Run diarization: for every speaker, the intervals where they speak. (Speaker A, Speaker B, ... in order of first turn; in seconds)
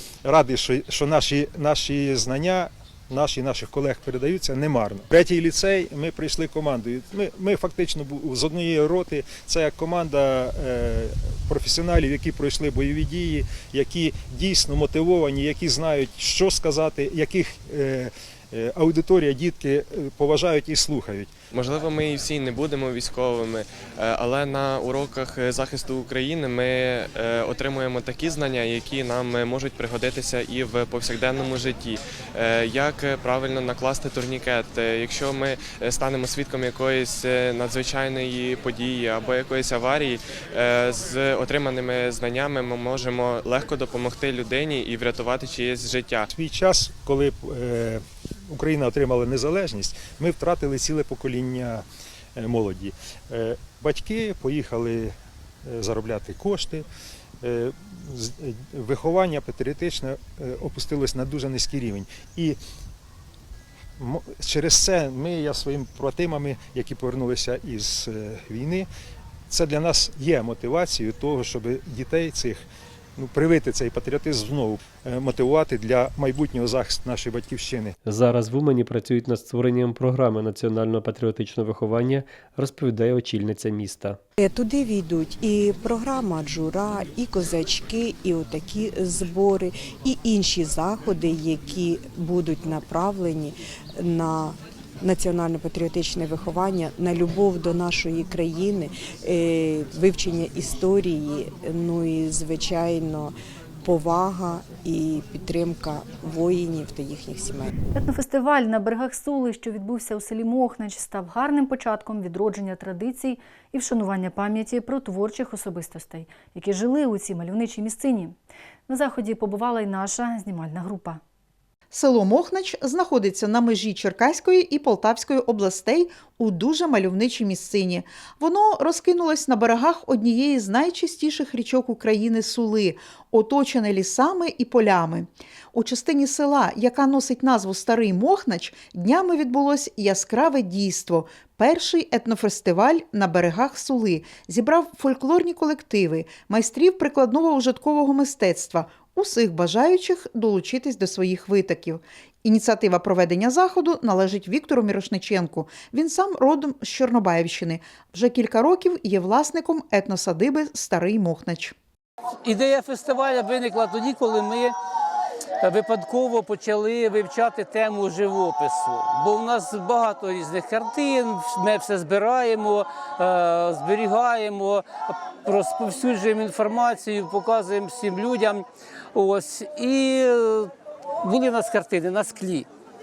Speaker A: 0.2-21.3, 46.3-56.9, 57.4-62.6, 64.0-68.9, 69.5-72.6, 73.2-77.9
Speaker B: 21.5-46.3
Speaker C: 78.0-84.2
Speaker D: 84.4-107.7
Speaker E: 107.9-118.3, 118.9-121.2
Speaker F: 121.9-161.7
Speaker G: 162.4-164.7, 165.6-174.8, 175.4-180.7, 181.2-182.7